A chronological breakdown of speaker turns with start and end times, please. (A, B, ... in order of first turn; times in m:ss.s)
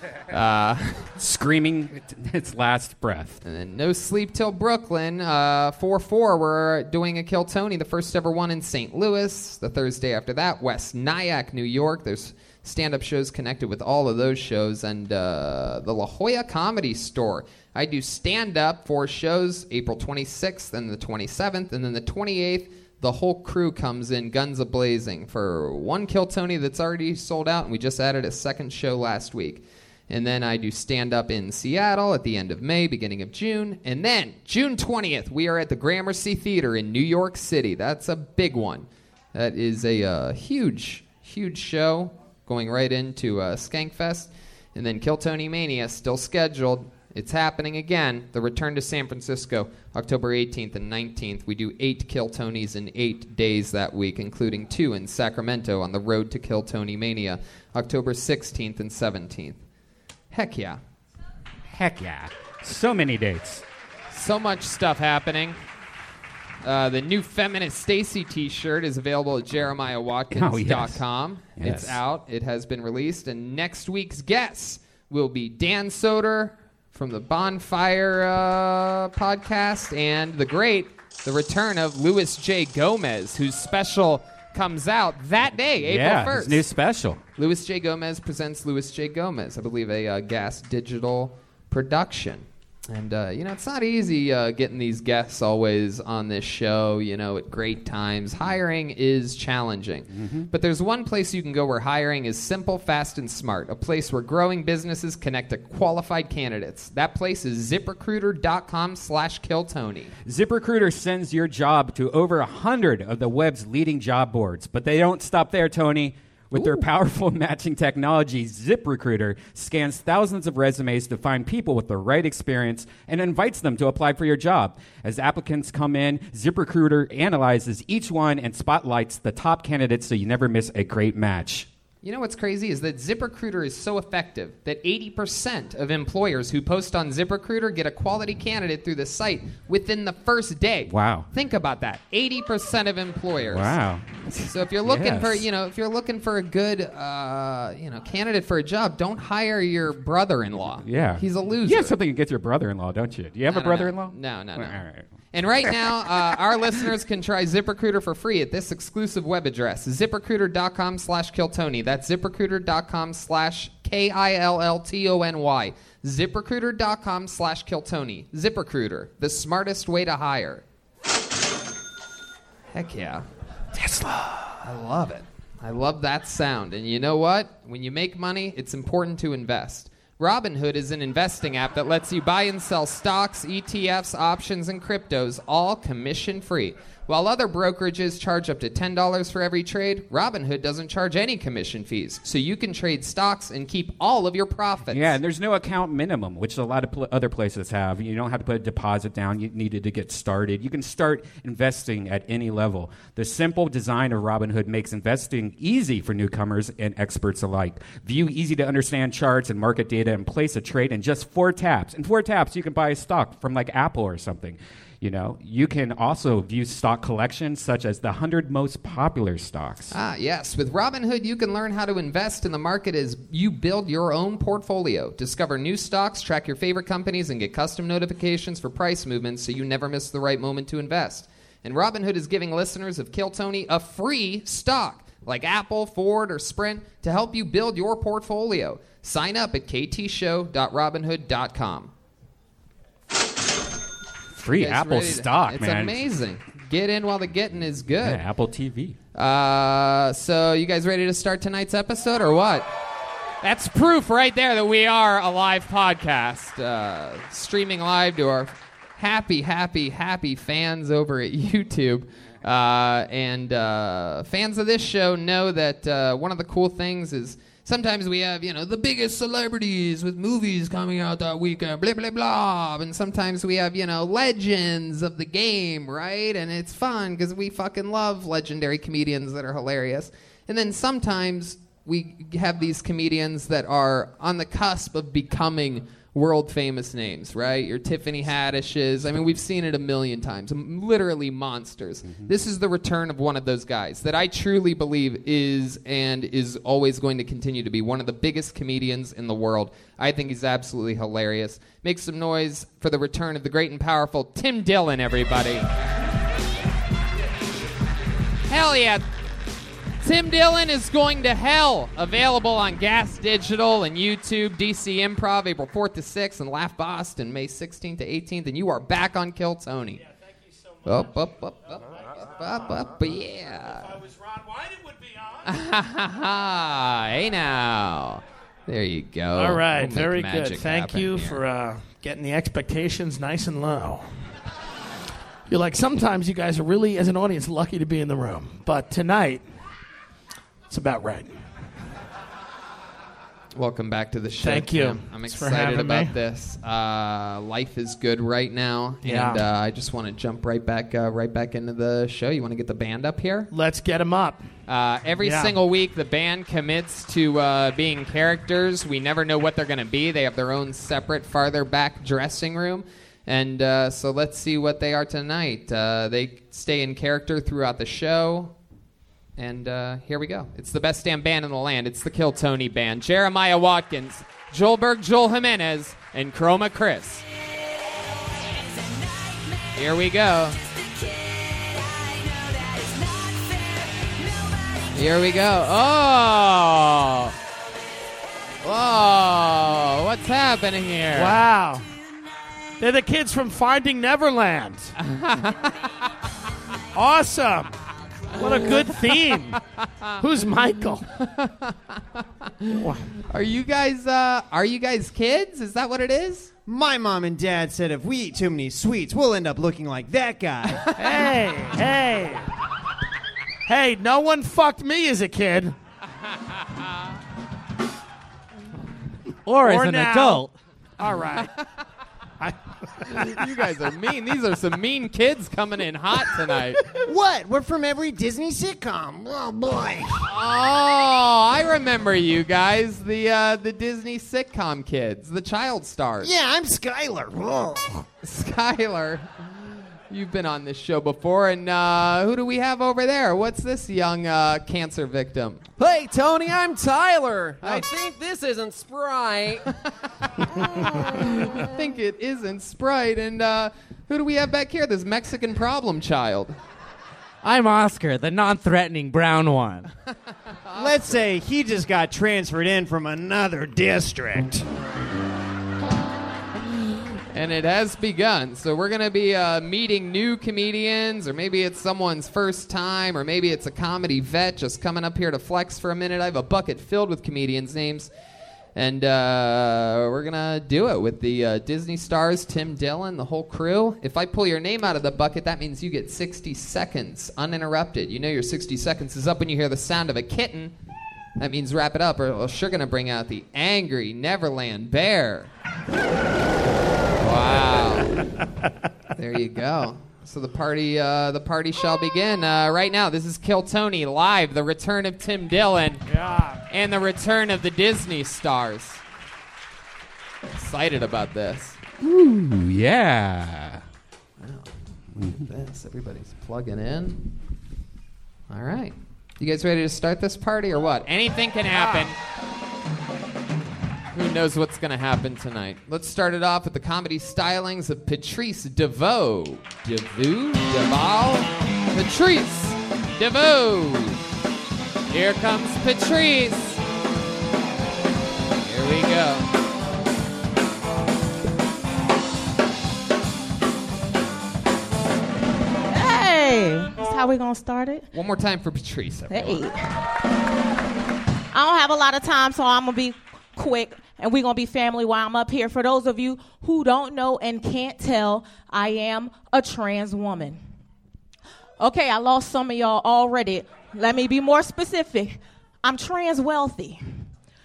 0:00.3-0:01.1 A
0:01.2-0:03.4 B
0:03.4-0:59.6 A
1:00.3-1:00.8 A
1:01.6-1:03.6 B
1:04.1-1:05.6 A
1:06.6-1:26.6 A
1:10.3-1:11.0 B
1:11.6-1:12.0 B
1:25.8-1:27.2 B
1:27.4-1:50.1 A
1:40.1-1:40.5 B
1:50.2-2:11.7 B
1:56.6-1:56.8 A
2:12.0-2:23.8 A
2:20.9-2:21.2 B
2:23.5-2:25.4 B
2:24.4-2:32.0 A
2:30.8-2:35.1 B
2:33.5-2:34.8 A
2:35.3-2:50.6 A
2:52.7-2:53.2 A
2:54.6-3:15.2 A
3:14.9-3:40.0 B
3:39.9-4:01.9 A
4:04.3-4:06.0 B
4:04.5-4:08.2 A
4:08.0-4:09.0 B
4:09.1-4:12.7 A
4:13.4-5:05.7 A
5:08.5-5:09.0 A
5:10.0-5:20.0 A
5:20.8-5:24.0 A
5:24.0-5:25.4 C
5:25.4-5:31.4 A
5:29.4-5:34.1 C
5:35.5-5:39.4 C
5:40.7-5:41.4 C
5:43.6-5:53.5 A
5:44.4-5:46.1 C
5:49.0-5:49.4 C
5:53.5-5:54.4 C
5:54.7-6:08.5 A
5:55.2-5:55.6 C
6:09.4-6:17.2 A
6:19.7-6:20.6 A
6:24.9-6:27.3 A
6:28.6-6:31.4 A
6:31.1-6:31.8 C
6:32.8-6:34.9 C
6:35.0-6:35.7 A
6:36.9-6:37.7 C
6:38.3-6:39.6 C
6:38.4-6:40.1 A
6:40.2-6:41.0 C
6:41.2-6:46.5 A
6:42.7-6:43.1 C
6:46.7-6:50.9 D
6:51.0-6:52.4 C
6:53.7-6:55.7 C
6:59.4-7:00.5 E
6:59.6-7:00.4 C
7:01.0-7:01.5 C
7:02.4-7:03.4 C
7:03.0-7:06.8 A
7:07.0-7:10.2 D
7:10.2-7:16.3 A
7:16.2-7:18.0 D
7:18.2-7:19.3 A
7:20.1-7:25.6 A
7:25.8-7:29.6 F
7:30.6-7:36.6 A
7:37.4-7:39.9 E
7:40.6-7:41.3 A
7:40.8-7:44.6 D
7:47.3-7:58.1 A
7:58.8-8:10.7 A
8:11.4-8:15.5 A
8:17.2-8:18.2 A
8:19.2-8:26.0 A
8:26.1-8:26.6 C
8:26.7-8:29.0 A
8:30.5-8:31.8 A
8:32.0-8:33.8 B
8:34.4-8:37.3 A
8:38.5-8:42.2 A
8:41.7-8:42.1 C
8:44.1-8:54.2 A
8:55.1-8:56.8 A
8:58.6-8:59.5 A
9:05.9-9:08.0 G
9:08.1-9:09.6 A
9:09.3-9:09.8 G
9:11.5-9:20.6 G
9:21.8-9:27.0 G